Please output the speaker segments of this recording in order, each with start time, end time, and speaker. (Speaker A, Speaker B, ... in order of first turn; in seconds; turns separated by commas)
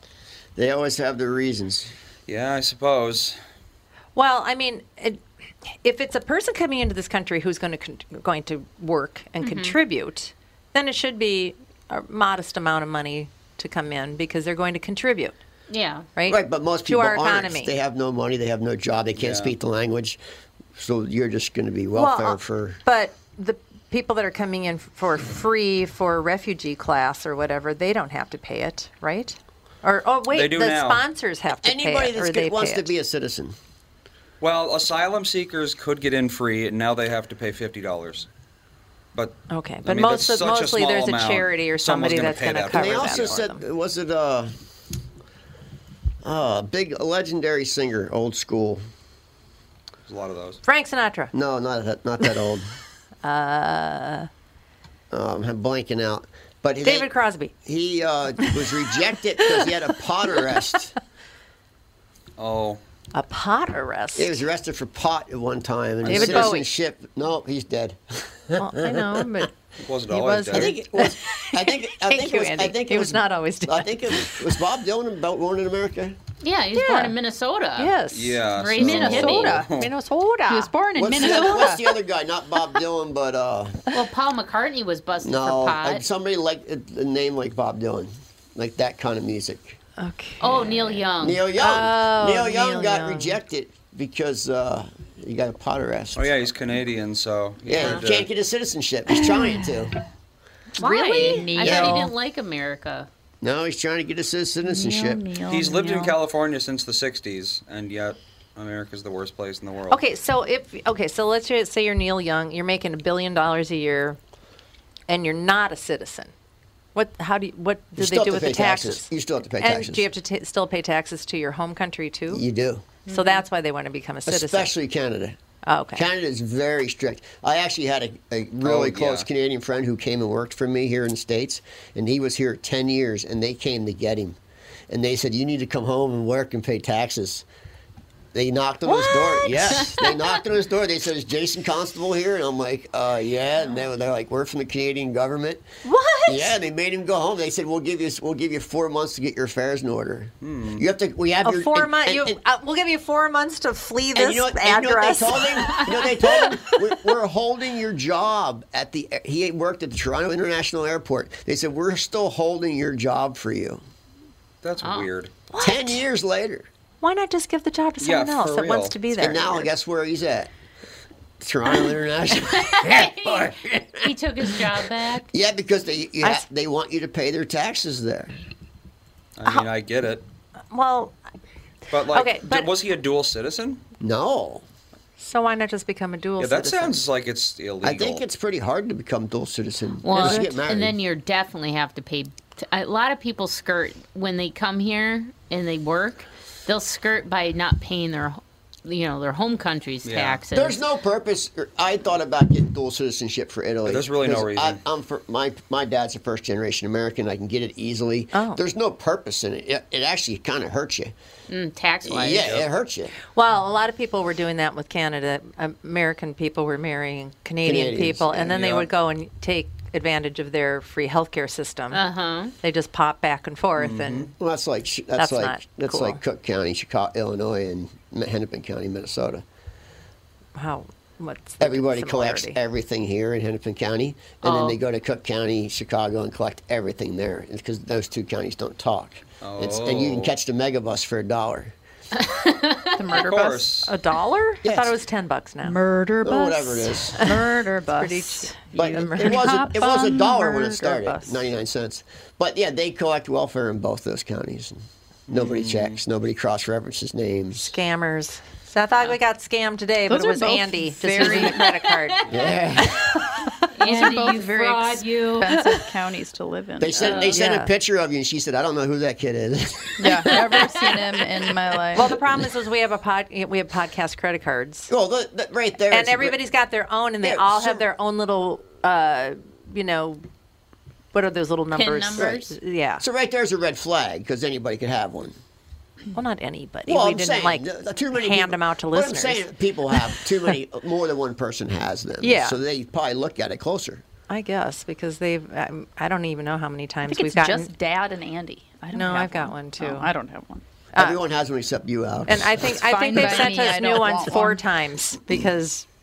Speaker A: 0.6-1.9, Speaker B: 2.3-3.4, Speaker C: 4.2-5.2, Speaker C: 5.8-15.3, Speaker D: 9.4-9.8, Speaker D: 15.7-16.1, Speaker C: 16.2-17.7, Speaker A: 16.3-20.2, Speaker B: 19.2-19.6, Speaker A: 20.8-22.8, Speaker C: 21.9-32.9, Speaker B: 30.3-31.0, Speaker A: 31.6-33.6, Speaker B: 34.4-38.3, Speaker B: 39.1-43.4, Speaker C: 39.5-43.6, Speaker A: 42.7-44.5, Speaker A: 46.2-48.8, Speaker B: 50.1-50.6, Speaker C: 50.6-51.3, Speaker A: 51.3-52.7, Speaker C: 53.2-54.3, Speaker A: 55.1-57.1, Speaker C: 56.8-57.5, Speaker A: 57.6-61.0, Speaker B: 62.4-62.8, Speaker C: 63.1-64.4, Speaker A: 64.2-69.5, Speaker B: 66.0-66.6, Speaker C: 66.1-66.7, Speaker C: 68.6-69.5, Speaker B: 69.8-70.8, Speaker C: 70.1-74.5, Speaker A: 70.5-76.2, Speaker D: 76.4-78.0, Speaker C: 76.7-77.1, Speaker C: 77.8-78.5, Speaker B: 78.1-79.9, Speaker D: 78.5-79.6, Speaker E: 78.8-79.7, Speaker C: 79.2-81.8, Speaker E: 80.5-81.9, Speaker A: 81.0-83.8, Speaker D: 83.9-86.0, Speaker A: 85.2-89.8, Speaker C: 90.0-91.0, Speaker D: 90.4-91.4, Speaker A: 91.2-96.4, Speaker C: 91.6-93.4, Speaker B: 96.2-98.3, Speaker A: 97.7-100.0, Speaker D: 97.8-98.0, Speaker C: 100.8-102.0, Speaker E: 100.8-102.1, Speaker D: 100.8-103.1, Speaker A: 101.6-102.0, Speaker A: 103.4-105.2, Speaker E: 104.6-106.2, Speaker B: 105.5-110.0, Speaker C: 109.9-114.2, Speaker C: 115.1-116.3, Speaker C: 117.0-122.4, Speaker A: 118.0-120.1, Speaker A: 122.3-122.9, Speaker C: 123.1-124.7, Speaker D: 123.1-123.4, Speaker A: 124.3-125.4, Speaker C: 125.7-126.0, Speaker A: 126.0-134.4, Speaker B: 128.6-129.3, Speaker A: 134.9-137.4, Speaker A: 138.3-145.7, Speaker C: 138.9-139.9, Speaker C: 145.8-146.6, Speaker A: 146.3-152.4, Speaker B: 150.4-150.8, Speaker C: 151.4-156.7, Speaker A: 154.2-163.8, Speaker B: 164.6-165.3, Speaker D: 164.8-165.1, Speaker C: 165.5-166.0, Speaker A: 165.6-166.7, Speaker C: 167.0-169.7, Speaker B: 168.0-169.0, Speaker A: 169.2-170.5, Speaker A: 171.4-178.4, Speaker D: 172.4-175.3, Speaker C: 176.2-176.5, Speaker B: 179.4-180.2, Speaker C: 180.7-181.2, Speaker B: 181.9-183.8, Speaker C: 182.1-182.7, Speaker A: 184.0-184.6, Speaker C: 185.2-187.0, Speaker B: 186.4-188.2, Speaker A: 187.8-191.0, Speaker D: 190.0-200.8, Speaker B: 200.1-200.4, Speaker A: 200.5-211.1, Speaker B: 203.9-204.8, Speaker C: 208.3-208.6, Speaker D: 211.5-212.5, Speaker A: 212.1-213.1, Speaker B: 212.4-212.7, Speaker C: 213.3-222.0, Speaker A: 217.6-218.8, Speaker B: 218.6-218.8, Speaker D: 221.9-222.5, Speaker C: 222.6-224.3, Speaker B: 223.8-224.3, Speaker A: 224.4-229.4, Speaker C: 225.2-226.2, Speaker C: 230.6-232.6, Speaker A: 231.6-241.7, Speaker D: 234.4-234.8, Speaker B: 239.4-240.3, Speaker D: 242.2-242.9, Speaker E: 243.0-243.7, Speaker B: 243.1-243.9, Speaker C: 243.8-245.8, Speaker A: 244.6-245.0, Speaker E: 245.6-250.7, Speaker A: 246.2-247.3, Speaker C: 247.1-251.4, Speaker A: 248.7-257.7, Speaker B: 255.3-256.0, Speaker C: 257.6-262.2, Speaker E: 260.1-261.8, Speaker D: 261.6-262.4, Speaker A: 262.3-263.1, Speaker D: 263.7-265.5, Speaker E: 263.8-267.2, Speaker A: 266.8-270.9, Speaker D: 267.0-267.4, Speaker C: 267.3-267.7, Speaker E: 270.0-272.1, Speaker C: 271.9-274.9, Speaker A: 272.0-272.2, Speaker A: 274.9-276.4, Speaker C: 275.9-280.2, Speaker A: 277.2-277.9, Speaker C: 281.1-283.0, Speaker D: 281.7-282.5, Speaker A: 282.2-282.4, Speaker A: 283.0-285.4, Speaker C: 286.1-290.0, Speaker A: 286.9-294.1, Speaker C: 292.2-292.6, Speaker C: 294.3-297.7, Speaker E: 297.1-300.6, Speaker C: 298.9-300.1, Speaker C: 300.9-301.2, Speaker A: 300.9-303.6, Speaker C: 302.3-305.9, Speaker E: 302.7-304.6